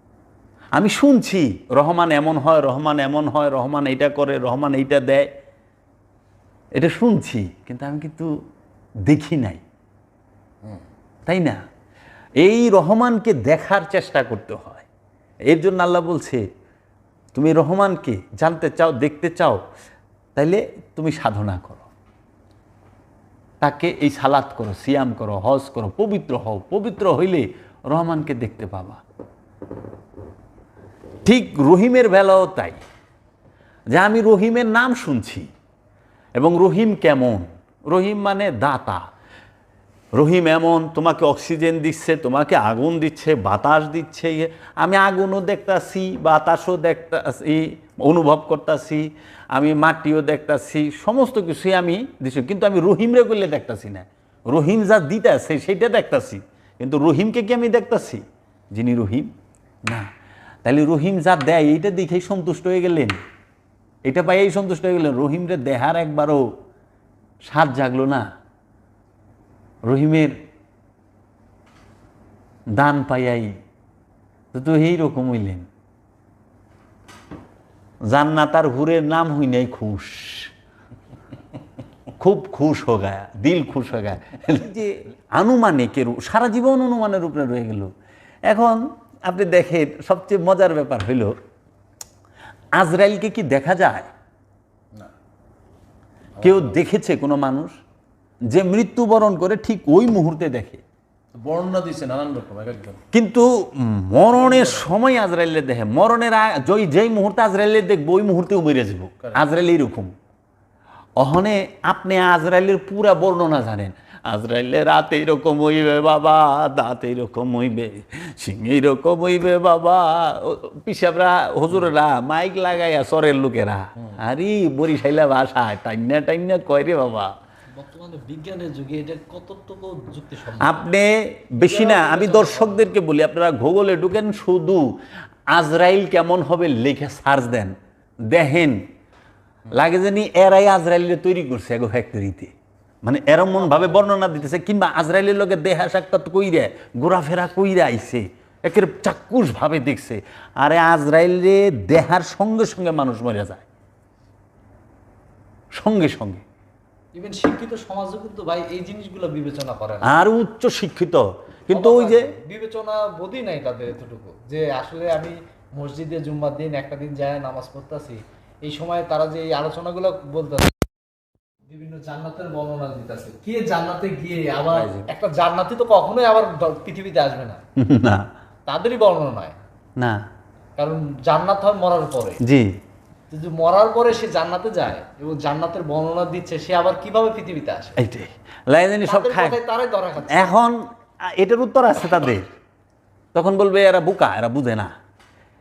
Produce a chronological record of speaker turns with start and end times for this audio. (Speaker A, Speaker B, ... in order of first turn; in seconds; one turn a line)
Speaker A: 0.8-5.3
Speaker A: 6.7-8.3
Speaker A: 9.0-9.6
Speaker A: 11.2-11.6
Speaker A: 12.4-14.8
Speaker A: 15.4-16.4
Speaker A: 17.3-19.6
Speaker A: 20.4-21.9
Speaker A: 23.6-29.0
Speaker A: 31.2-32.8
Speaker A: 33.9-35.5
Speaker A: 36.4-39.0
Speaker A: 40.1-59.3
Speaker A: 60.6-63.2
Speaker A: 64.0-66.5
Speaker A: 67.5-68.3
Speaker A: 69.8-70.3
Speaker A: 72.7-73.6
Speaker A: 74.5-75.7
Speaker A: 78.1-80.5
Speaker A: 82.2-87.9
Speaker A: 88.5-91.4
Speaker A: 92.8-94.1
Speaker B: 96.4-96.8
Speaker A: 96.4-97.8
Speaker A: 98.5-100.8
Speaker B: 101.3-103.0
Speaker A: 103.1-110.1
Speaker B: 104.4-104.9
Speaker A: 111.2-127.3
Speaker C: 127.8-130.8
Speaker A: 130.6-135.0
Speaker C: 131.6-132.9
Speaker A: 135.5-137.8
Speaker A: 138.2-138.9
Speaker A: 139.7-142.5
Speaker A: 143.0-153.6
Speaker A: 155.7-156.4
Speaker C: 157.1-160.1
Speaker A: 160.0-162.3
Speaker C: 161.7-170.8
Speaker C: 171.7-177.6
Speaker A: 174.7-175.1
Speaker A: 177.8-178.3
Speaker C: 178.7-179.5
Speaker A: 180.0-180.2
Speaker C: 180.8-182.4
Speaker A: 182.4-182.8
Speaker C: 183.3-188.0
Speaker A: 188.0-189.6
Speaker C: 189.1-190.6
Speaker A: 190.3-192.5
Speaker A: 193.3-194.9